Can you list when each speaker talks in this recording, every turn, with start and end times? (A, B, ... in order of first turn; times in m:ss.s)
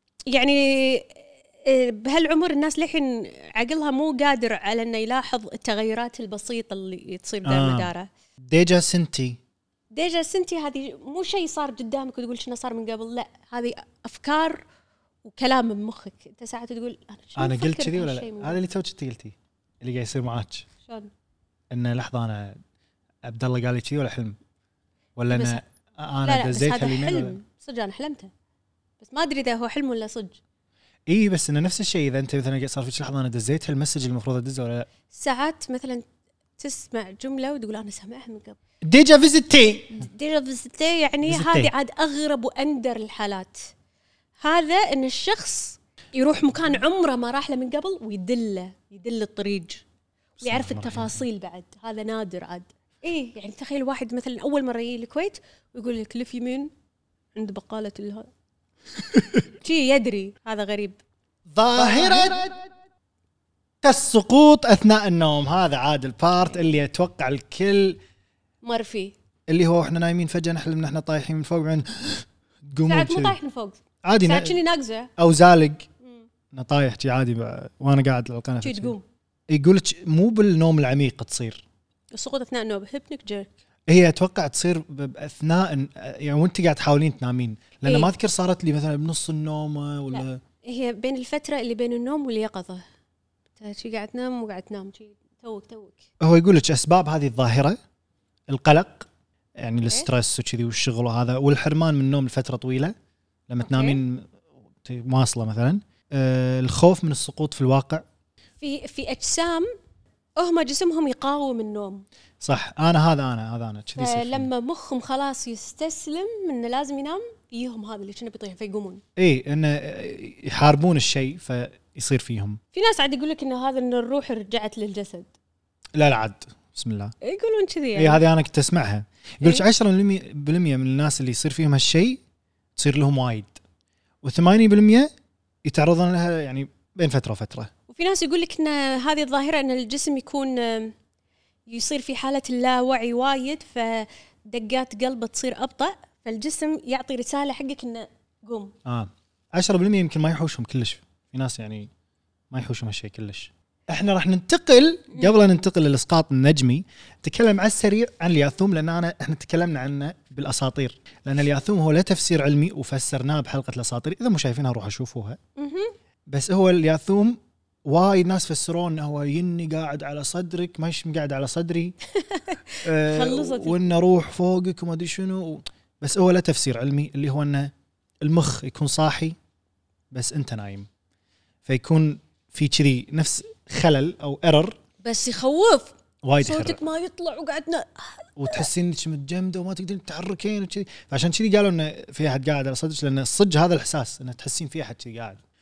0:00.3-0:08.1 A
0:07.4-0:07.9 B
0:08.4-0:09.4 B
0:09.9-0:14.6 A
0:15.2-0:18.6 A
0:17.4-0:20.6 B
0:21.7-0:22.6 B
0:23.2-0:24.4 B
0:25.2-0:27.4 B
0:25.3-0:25.6 A
0:26.2-0:28.3 A
0:29.0-0:30.4 A
0:31.1-0:34.9 B
0:35.1-0:36.0 A
0:36.6-0:38.6 A
0:38.8-0:40.0 B
0:40.0-0:43.7 A
0:41.2-0:41.7 B
0:44.4-0:49.8 A
0:50.4-0:51.2 B
0:50.4-0:56.7 A
0:57.4-0:58.3 A
0:59.2-0:59.4 B
0:59.6-1:01.0 A
1:01.5-1:02.6 B
1:03.8-1:08.0 B
1:08.6-1:09.2 A
1:09.5-1:13.4 B
1:12.8-1:15.1 A
1:14.0-1:14.6 B
1:15.2-1:15.9 B
1:16.5-1:19.0 B
1:18.6-1:19.0 A
1:19.5-1:21.6 B
1:22.1-1:23.5 A
1:23.9-1:30.4 B
1:27.8-1:28.1 A
1:30.1-1:32.8 A
1:33.6-1:36.1 A
1:36.2-1:37.8 B
1:38.5-1:43.0 B
1:43.5-1:44.3 B
1:43.7-1:44.0 A
1:44.8-1:48.0 B
1:48.6-1:49.7 A
1:50.4-1:52.0 A
1:52.4-1:54.5 B
1:54.0-1:59.0 A
1:59.2-2:02.6 B
2:02.7-2:05.3 A
2:06.0-2:07.2 B
2:07.2-2:08.2 A
2:08.0-2:12.2 B
2:12.8-2:13.6 B
2:14.2-2:15.1 B
2:15.6-2:17.7 B
2:17.9-2:21.0 A
2:21.7-2:28.7 A
2:28.8-2:31.9 B
2:32.5-2:45.4 B
2:45.6-2:45.9 A
2:46.3-2:52.0 B
2:52.2-2:53.9 A
2:52.8-2:59.4 B
3:00.1-3:00.9 B
3:01.6-3:04.8 B
3:05.0-3:08.6 A
3:06.2-3:06.8 B
3:08.4-3:15.4 B